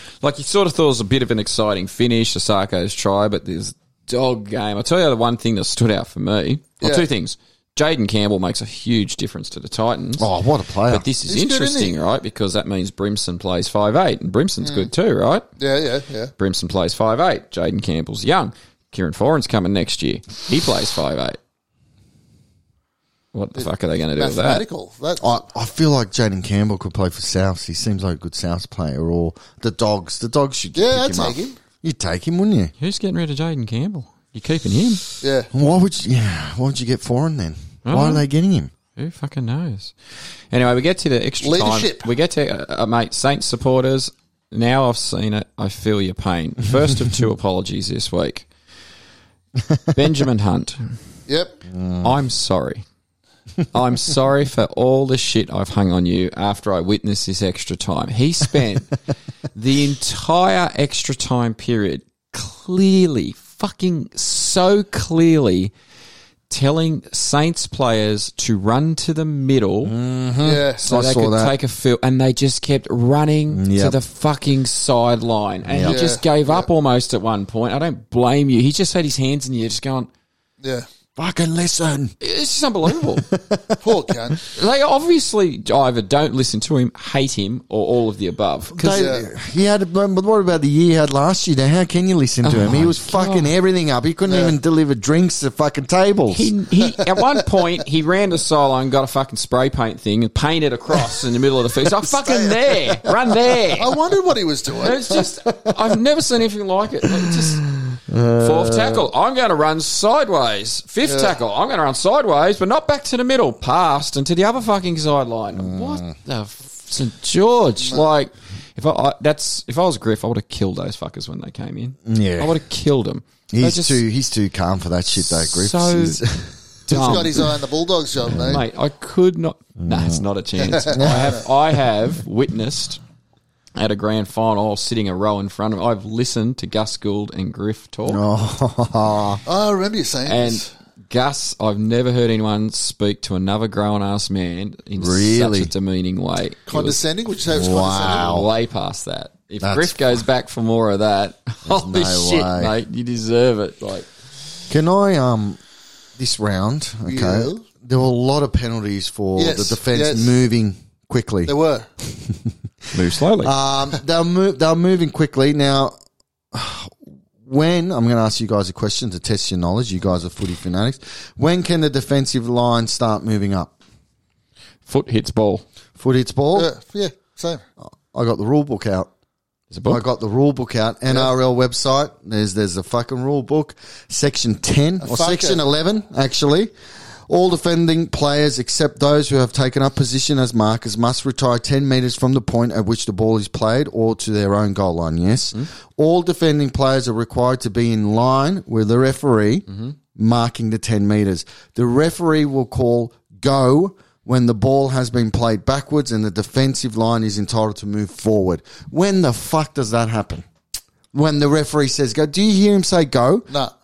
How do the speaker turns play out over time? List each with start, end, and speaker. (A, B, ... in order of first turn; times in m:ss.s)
0:00.2-0:10.3 A
0:06.8-0:07.1 B
0:10.2-0:11.0 C
0:10.9-0:15.4 A
0:11.3-0:12.0 B
0:14.6-0:14.9 B
0:15.6-0:16.3 B
0:16.4-0:21.4 A
0:23.3-0:24.6 A
0:23.6-0:25.4 B
0:25.2-0:32.7 C
0:30.8-0:31.6 B
0:32.8-0:35.0 A
0:35.2-0:35.5 B
0:35.5-0:38.7 C
0:37.8-0:38.2 A
0:39.0-0:40.0 A
0:40.5-0:48.5 A
0:41.4-0:42.1 B
0:49.9-0:51.0 A
0:51.3-0:51.6 B
0:51.7-0:52.1 C
0:52.0-0:52.8 A
0:53.7-0:58.9 A
0:59.6-1:05.7 A
1:06.5-1:09.9 A
1:09.8-1:11.6 C
1:10.4-1:10.8 B
1:10.9-1:20.1 A
1:13.5-1:14.0 C
1:15.7-1:16.0 C
1:15.9-1:16.7 B
1:21.2-1:22.1 C
1:22.2-1:23.3 A
1:22.9-1:23.8 C
1:23.8-1:24.4 B
1:24.5-1:29.1 A
1:28.7-1:36.5 C
1:28.9-1:29.2 B
1:32.4-1:33.5 A
1:34.3-1:34.5 B
1:36.3-1:43.9 A
1:42.0-1:43.6 C
1:43.8-1:45.1 B
1:44.8-1:47.6 A
1:45.2-1:45.7 C
1:48.0-1:49.1 C
1:48.4-2:04.0 A
1:51.0-1:51.4 B
1:55.6-1:56.2 C
2:02.0-2:02.6 C
2:03.5-2:06.6 C
2:05.2-2:06.2 A
2:06.9-2:07.4 A
2:06.9-2:08.6 B
2:08.4-2:13.0 A
2:09.8-2:10.2 C
2:10.7-2:11.3 B
2:11.0-2:11.4 C
2:13.8-2:18.2 A
2:18.1-2:19.4 C
2:19.5-2:20.6 B
2:20.3-2:27.0 A
2:25.0-2:25.7 C
2:26.7-2:28.4 B
2:27.5-2:28.5 C
2:28.1-2:34.1 A
2:29.6-2:30.0 C
2:31.7-2:32.7 C
2:34.7-2:35.6 C
2:36.2-2:41.5 C
2:37.1-2:37.6 B
2:39.4-2:40.4 B
2:41.5-2:41.9 B
2:42.1-2:42.5 C
2:42.9-2:43.5 A
2:43.4-2:46.0 C
2:46.5-2:53.8 C
2:54.9-2:55.6 A
2:56.0-2:56.7 C
2:56.6-2:57.6 B
2:57.8-2:59.1 C
2:59.7-3:00.0 A
2:59.8-3:06.7 C
3:05.0-3:05.6 B
3:07.3-3:30.5 C
3:19.7-3:20.0 A
3:31.1-3:33.5 C